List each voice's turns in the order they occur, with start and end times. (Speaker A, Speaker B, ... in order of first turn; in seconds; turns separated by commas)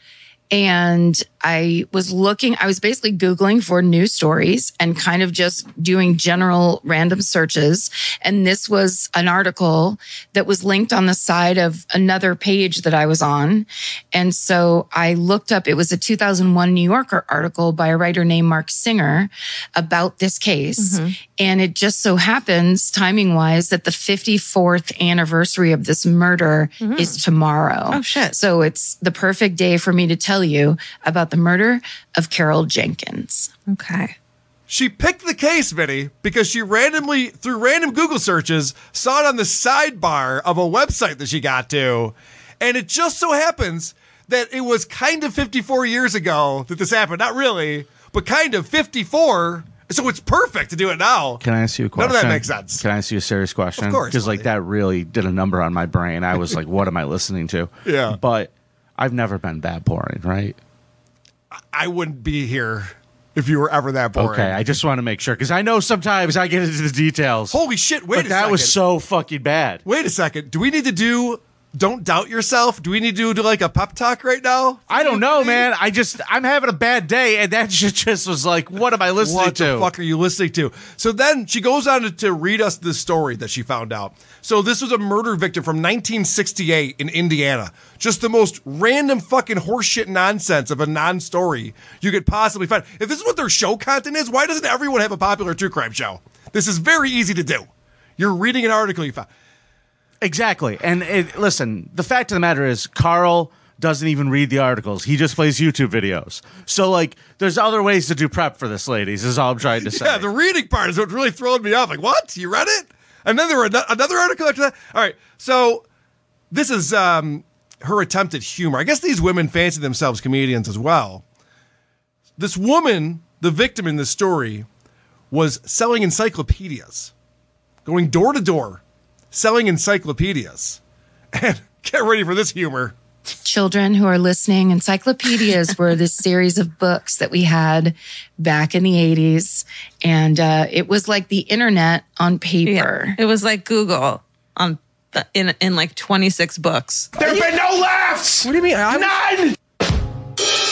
Speaker A: 0.5-33.5, Speaker B: 20.8-21.1, Speaker B: 26.8-27.2, Speaker B: 27.9-28.4, Speaker B: 33.7-34.1, Speaker C: 34.7-51.4, Speaker D: 51.4-60.6, Speaker C: 52.0-52.8, Speaker C: 53.8-54.5, Speaker C: 57.8-58.2, Speaker C: 61.7-64.5, Speaker D: 64.2-67.6, Speaker C: 67.5-68.8, Speaker D: 68.1-69.8, Speaker C: 69.8-75.7, Speaker D: 74.9-79.9, Speaker C: 79.2-99.3, Speaker D: 100.2-110.2, Speaker C: 109.8-115.8, Speaker C: 116.5-121.2, Speaker C: 122.4-124.7, Speaker C: 125.3-127.1, Speaker C: 127.8-128.8, Speaker C: 129.3-130.8, Speaker C: 131.3-132.9, Speaker A: 133.4-143.2, Speaker B: 142.6-147.4, Speaker E: 147.2-149.6